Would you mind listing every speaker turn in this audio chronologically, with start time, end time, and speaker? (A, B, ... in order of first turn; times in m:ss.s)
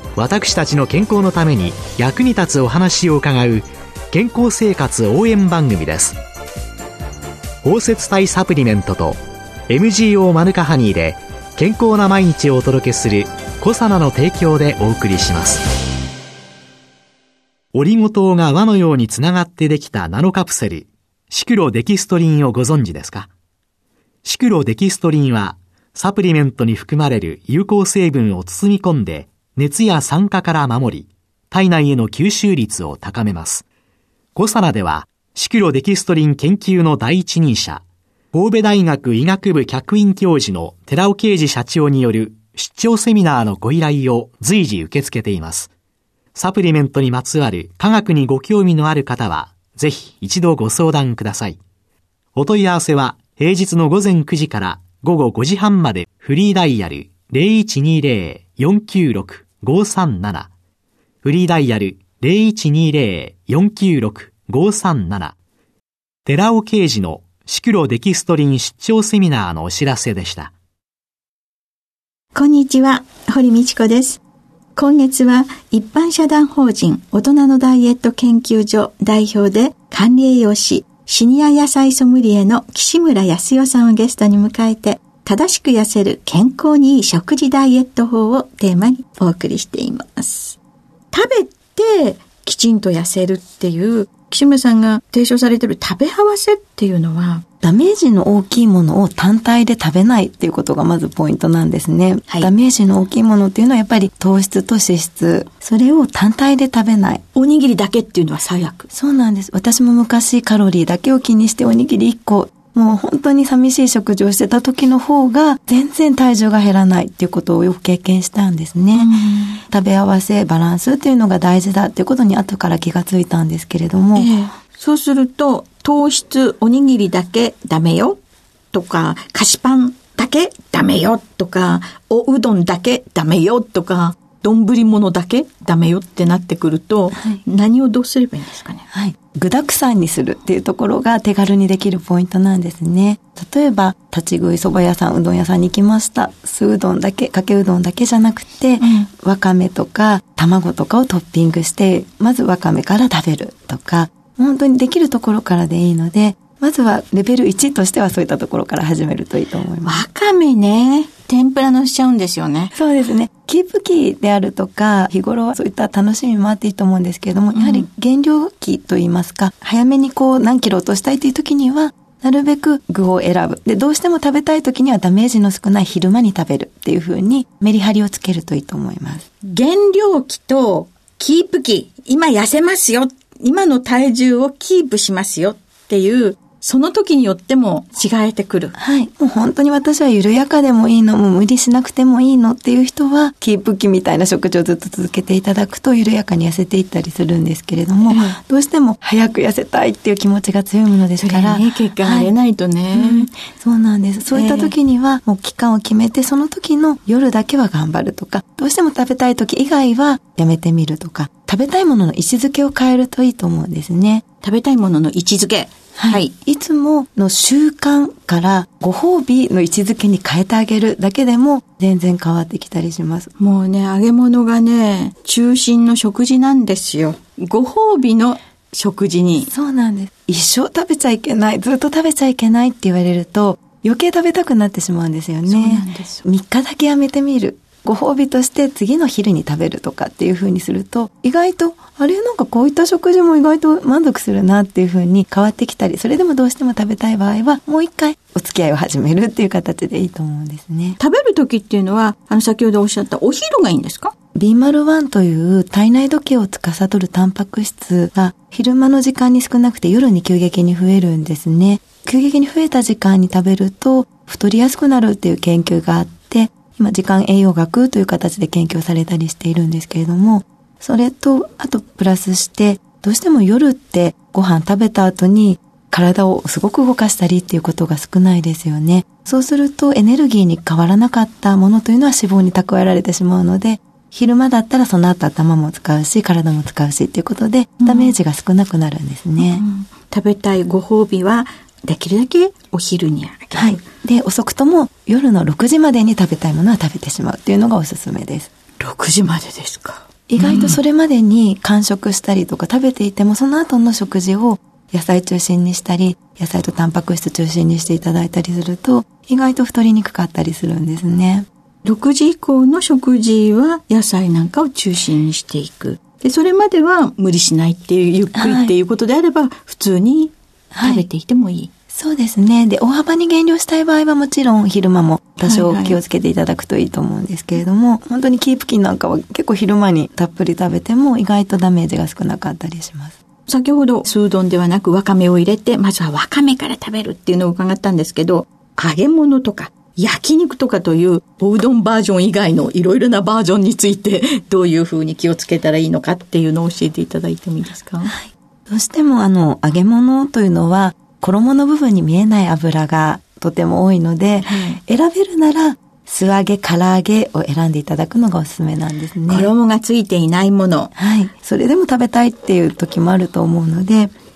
0:00.2-0:06.2 A
0:07.6-0:15.6 A
0:17.7-0:23.3 A
0:24.2-0:33.6 A
0:34.3-0:45.7 A
0:46.3-0:51.6 A
0:52.3-1:00.5 A
1:01.2-1:05.3 A
1:06.2-1:10.5 A
1:12.3-1:14.2 B
1:14.7-1:30.6 B
1:31.1-1:37.4 B
1:37.6-1:47.2 C
1:47.3-1:48.9 B
1:48.9-1:59.1 C
1:58.9-1:59.6 B
1:59.7-2:04.4 C
2:04.1-2:08.2 B
2:08.7-2:18.8 B
2:17.1-2:17.4 C
2:18.9-2:40.0 C
2:28.8-2:29.1 B
2:39.8-2:42.7 B
2:42.7-2:59.3 C
2:47.5-2:47.9 B
2:59.4-3:08.7 B
3:08.8-3:22.3 C
3:18.1-3:18.4 B
3:21.2-3:23.3 B
3:22.9-3:34.2 C
3:24.3-3:24.7 B
3:34.4-3:36.3 B
3:36.0-3:43.3 C
3:43.4-3:49.5 B
3:49.5-4:11.0 C
3:55.4-3:56.2 B
4:11.0-4:14.1 B
4:14.3-4:49.6 C
4:47.8-4:48.1 B
4:49.4-4:53.8 B
4:53.5-4:58.5 C
4:58.8-5:00.8 B
5:00.3-5:11.5 C
5:11.8-5:21.7 B
5:18.3-5:18.7 C
5:20.7-5:21.0 C
5:21.9-5:33.2 C
5:25.4-5:26.0 B
5:33.5-5:48.1 B
5:48.0-5:59.5 C
5:54.4-5:54.8 B
5:59.3-6:00.9 B
6:01.0-6:04.1 C